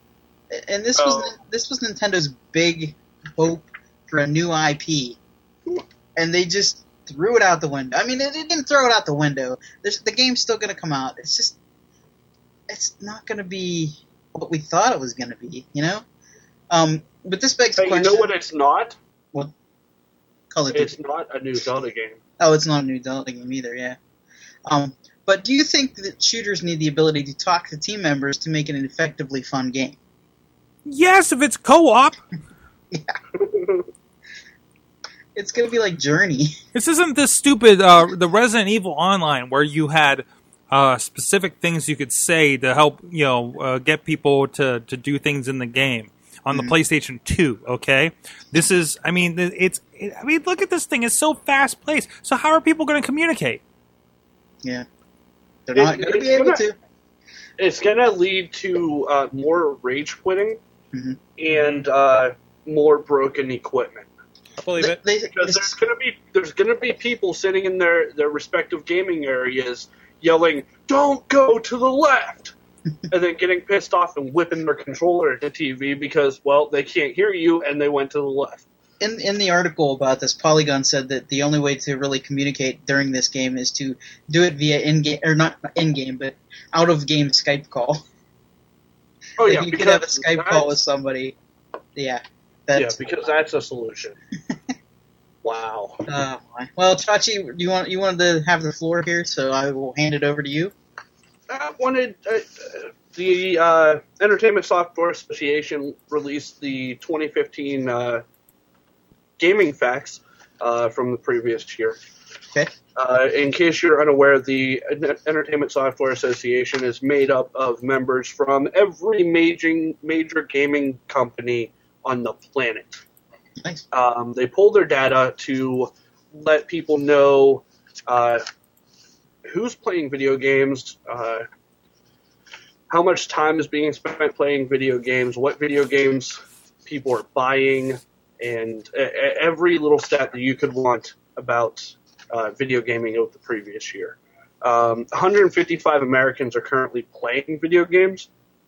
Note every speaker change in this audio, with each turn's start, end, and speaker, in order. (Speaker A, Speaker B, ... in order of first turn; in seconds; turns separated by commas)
Speaker A: 0.5-5.2, Speaker B: 1.0-1.3, Speaker A: 6.2-11.6, Speaker A: 12.7-16.0, Speaker A: 16.7-18.3, Speaker B: 17.8-19.0, Speaker A: 20.5-20.9, Speaker B: 20.7-22.2, Speaker A: 22.4-24.0, Speaker A: 24.7-30.0, Speaker C: 30.9-32.2, Speaker A: 32.9-33.2, Speaker B: 33.4-33.8, Speaker A: 35.4-36.6, Speaker C: 36.7-53.6, Speaker A: 55.7-56.8, Speaker B: 55.8-56.6, Speaker B: 57.6-60.6, Speaker A: 60.9-61.2, Speaker B: 61.4-64.1, Speaker C: 64.6-65.0, Speaker A: 64.8-65.8, Speaker B: 65.3-72.5, Speaker B: 73.1-78.7, Speaker A: 79.0-88.0, Speaker B: 89.4-90.8, Speaker A: 89.4-91.4, Speaker A: 92.0-93.0, Speaker B: 92.8-94.2, Speaker B: 95.4-96.1, Speaker A: 96.1-100.7, Speaker B: 101.5-108.2, Speaker B: 109.4-112.0, Speaker B: 113.0-123.0, Speaker B: 123.9-128.4, Speaker B: 129.5-131.4, Speaker B: 132.9-148.3